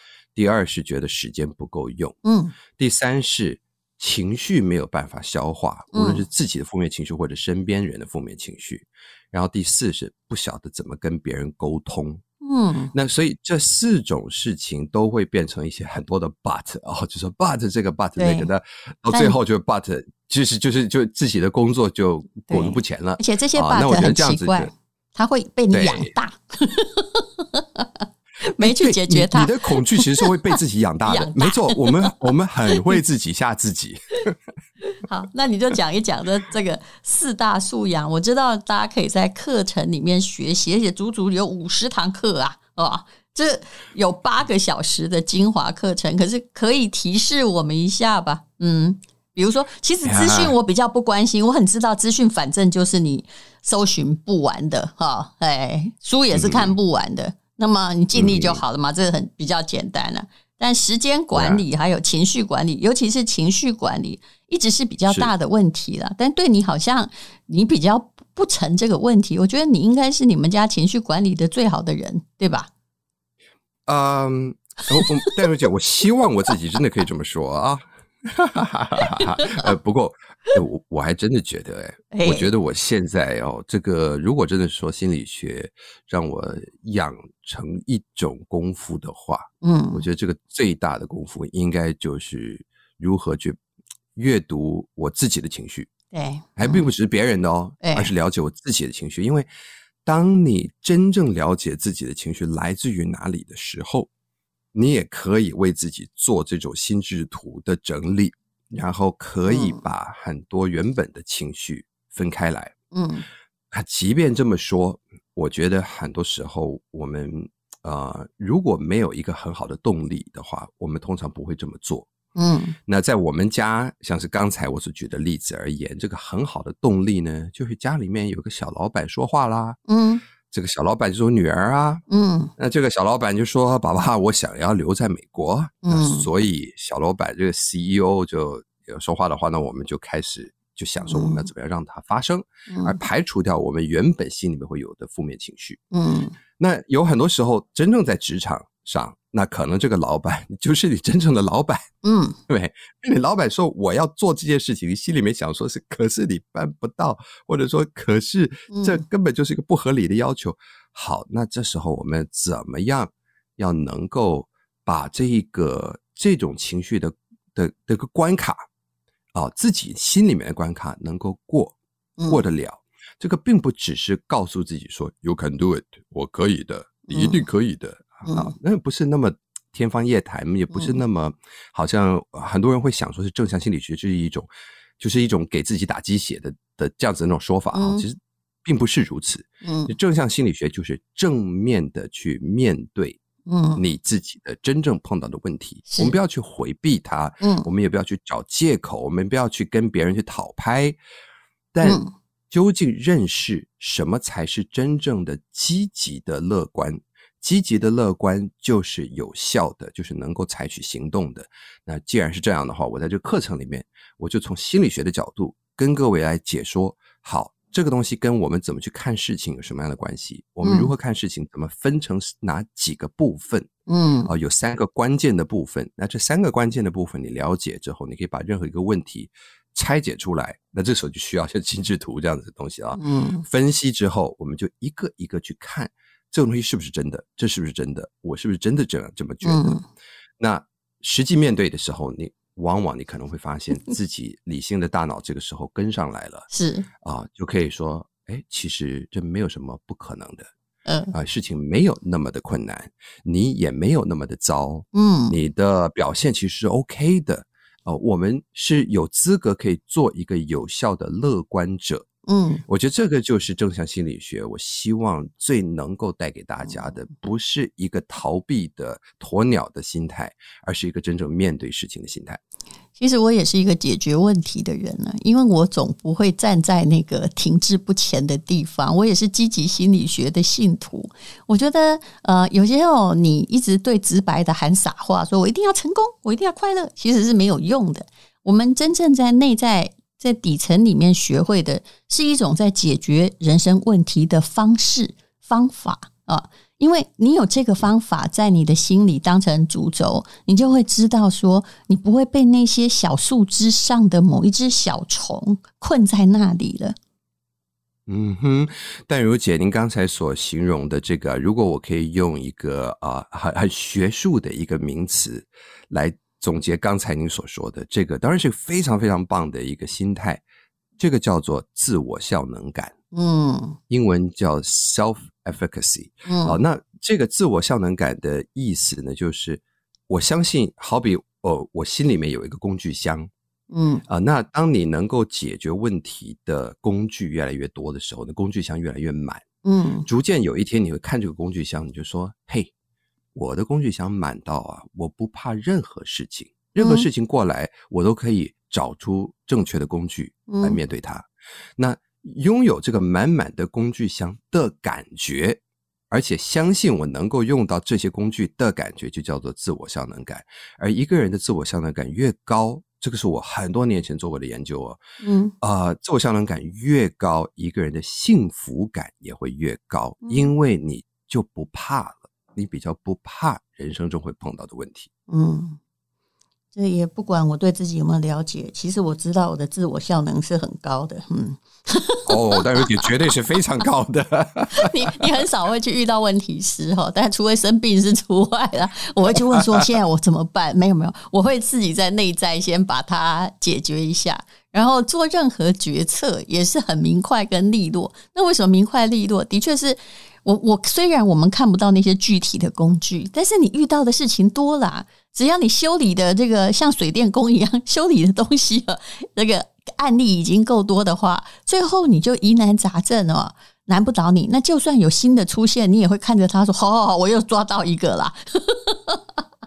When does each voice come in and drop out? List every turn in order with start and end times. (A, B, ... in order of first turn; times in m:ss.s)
0:00.3-0:02.2 A
0:02.2-0:02.5 B
0:02.7-0:12.2 A
0:05.9-0:06.2 B
0:12.4-0:12.9 B
0:12.9-0:24.7 A
0:18.2-0:18.5 B
0:19.1-0:19.4 B
0:22.5-0:32.3 B
0:25.7-0:26.1 A
0:28.6-0:34.3 A
0:34.9-1:12.7 B
0:50.0-0:50.6 A
0:56.3-0:56.8 A
0:58.1-0:58.6 A
1:01.3-1:01.6 A
1:13.9-1:33.6 A
1:19.1-1:19.7 B
1:22.1-1:22.5 B
1:29.6-1:30.0 B
1:34.2-1:35.9 A
1:36.1-1:36.9 B
1:36.6-1:39.5 A
1:37.8-1:38.1 B
1:40.0-1:44.1 A
1:44.7-1:52.7 A
1:49.5-1:49.8 B
1:52.9-1:53.2 B
1:53.7-2:02.1 A
2:02.4-2:02.8 B
2:02.8-2:09.8 A
2:09.9-2:10.2 B
2:10.4-2:12.0 A
2:12.1-2:12.5 B
2:12.6-2:25.8 A
2:15.8-2:16.3 B
2:21.0-2:21.4 B
2:22.7-2:23.0 B
2:25.9-2:26.4 B
2:26.6-2:31.8 A
2:32.0-2:32.4 B
2:32.5-2:48.6 A
2:38.7-2:39.0 B
2:49.3-2:51.8 A
2:52.3-3:13.2 A
2:57.1-2:57.4 B
2:58.2-2:58.5 B
3:00.7-3:01.0 B
3:07.7-3:08.0 B
3:09.6-3:09.9 B
3:13.5-3:13.8 B
3:13.8-3:21.0 A
3:15.9-3:16.2 B
3:17.4-3:17.7 B
3:21.7-3:43.7 A
3:21.8-3:22.1 B
3:40.6-3:40.9 B
3:43.9-3:44.3 B
3:44.3-3:59.8 A
3:53.0-3:53.4 B
3:59.4-3:59.8 B
4:00.4-4:06.5 A
4:06.5-4:06.9 B
4:07.0-4:10.5 A
4:10.9-4:11.1 B
4:11.1-4:22.1 A
4:14.9-4:15.4 B
4:22.3-4:22.6 B
4:22.7-4:32.4 A
4:33.0-5:07.0 B
5:08.1-5:20.4 A
5:21.0-5:22.9 A
5:23.1-5:23.8 B
5:23.9-5:33.3 A
5:26.2-5:26.6 B
5:33.7-5:34.0 B
5:34.1-5:39.4 A
5:39.6-5:40.1 B
5:40.0-5:42.7 A
5:43.3-5:55.6 A
5:46.8-5:47.1 B
5:50.5-5:50.8 B
5:56.1-6:05.0 A
6:05.2-6:05.5 B
6:05.6-6:15.1 A
6:10.2-6:10.5 B
6:15.3-6:15.8 B
6:16.7-6:23.1 B
6:22.3-6:25.3 A
6:24.7-6:59.2 B
6:29.5-6:29.9 A